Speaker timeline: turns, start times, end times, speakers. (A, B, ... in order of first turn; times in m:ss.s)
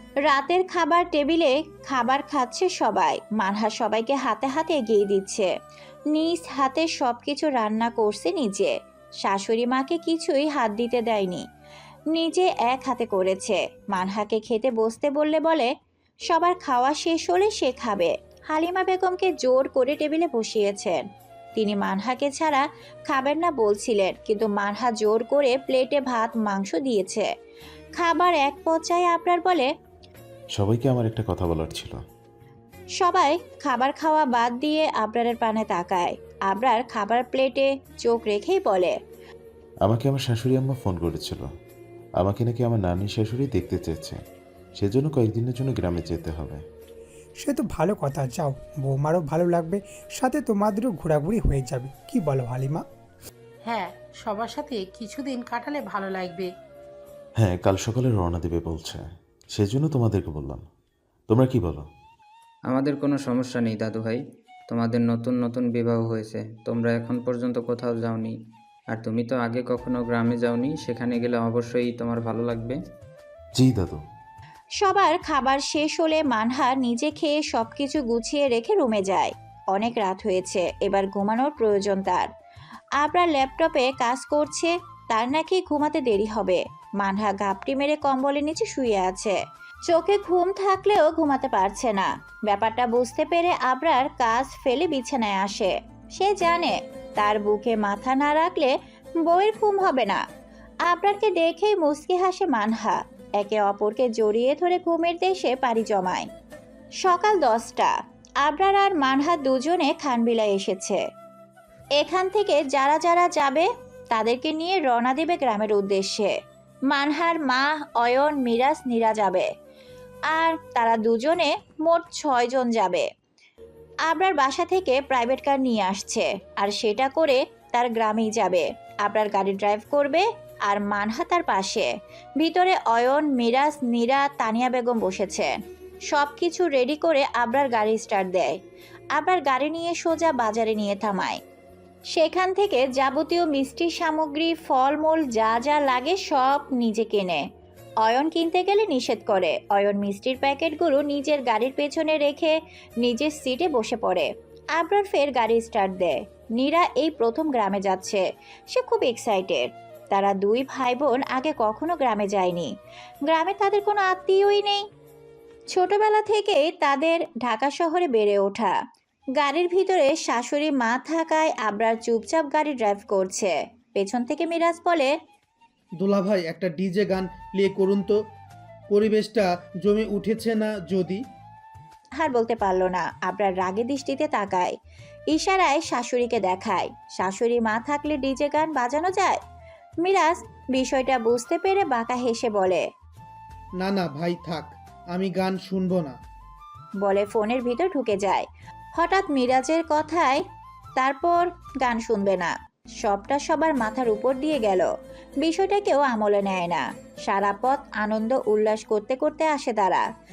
0:00.3-0:05.5 A
0:06.1-0:08.7 A
0:09.2-0:11.4 A
0:12.1-0:15.7 A
0:16.3-0:21.1 A
0:21.6-0:27.3 A
0:28.0-0:29.7 A
0:30.6-0:32.0 B
0:33.0-0:39.0 A
0:39.8-0:41.5 B
0:42.2-0:44.2 B
0:44.8-0:46.6 B
0:47.4-0:52.8 C
0:53.7-0:56.5 D
0:57.4-1:00.6 B
1:01.3-1:01.9 B
1:02.7-1:08.3 E
1:08.9-1:12.8 E
1:13.6-1:14.0 B
1:14.8-1:22.3 A
1:23.0-1:29.4 A
1:29.9-1:38.7 A
1:39.2-1:40.2 A
1:40.9-1:46.3 A
1:47.0-1:51.0 A
1:52.0-1:56.4 A
1:56.9-1:59.5 A
2:00.3-2:03.1 A
2:04.1-2:15.6 A
2:16.1-2:18.6 A
2:19.2-2:21.4 A
2:22.1-2:27.4 A
2:28.0-2:42.7 A
2:43.3-2:44.8 A
2:45.7-2:48.7 A
2:49.4-2:55.1 A
2:56.0-2:58.2 F
2:58.9-3:01.2 F
3:02.2-3:04.8 A
3:05.3-3:09.4 A
3:10.0-3:12.8 A
3:13.8-3:16.2 F
3:17.0-3:18.5 A
3:19.0-3:20.4 A
3:21.0-3:24.9 A
3:25.4-3:30.0 A